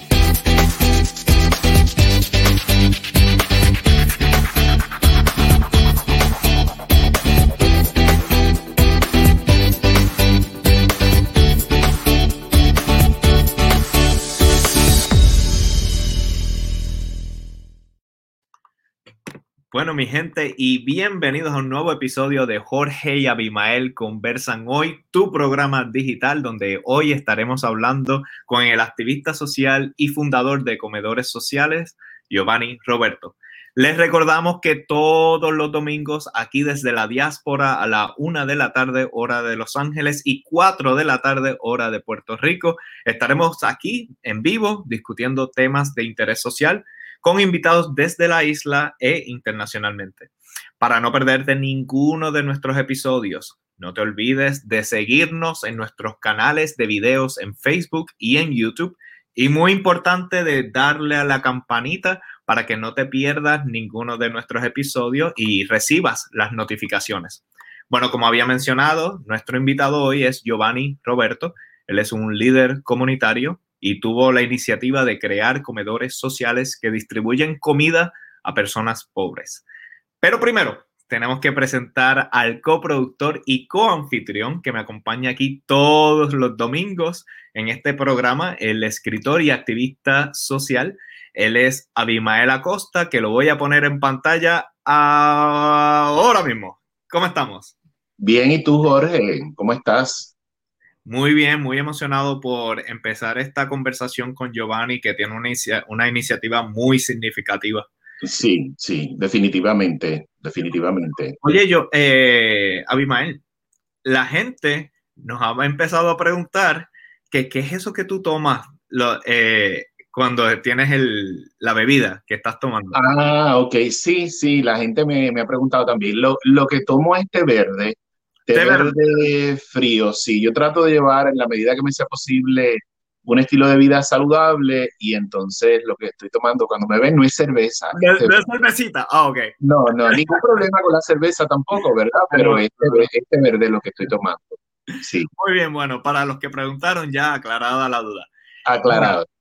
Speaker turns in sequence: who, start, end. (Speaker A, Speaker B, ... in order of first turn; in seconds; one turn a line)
Speaker A: 19.7-79.6
Speaker A: 80.2-97.7
Speaker B: 98.2-100.3
Speaker A: 101.0-107.9
Speaker B: 108.2-111.4
Speaker A: 111.4-113.4
Speaker A: 114.0-123.0
Speaker B: 122.9-128.0
Speaker B: 128.5-138.4
Speaker A: 128.5-128.9
Speaker A: 137.9-140.4
Speaker B: 139.6-145.3
Speaker A: 142.3-143.1
Speaker A: 145.3-148.3
Speaker B: 148.7-149.2
Speaker A: 148.9-149.1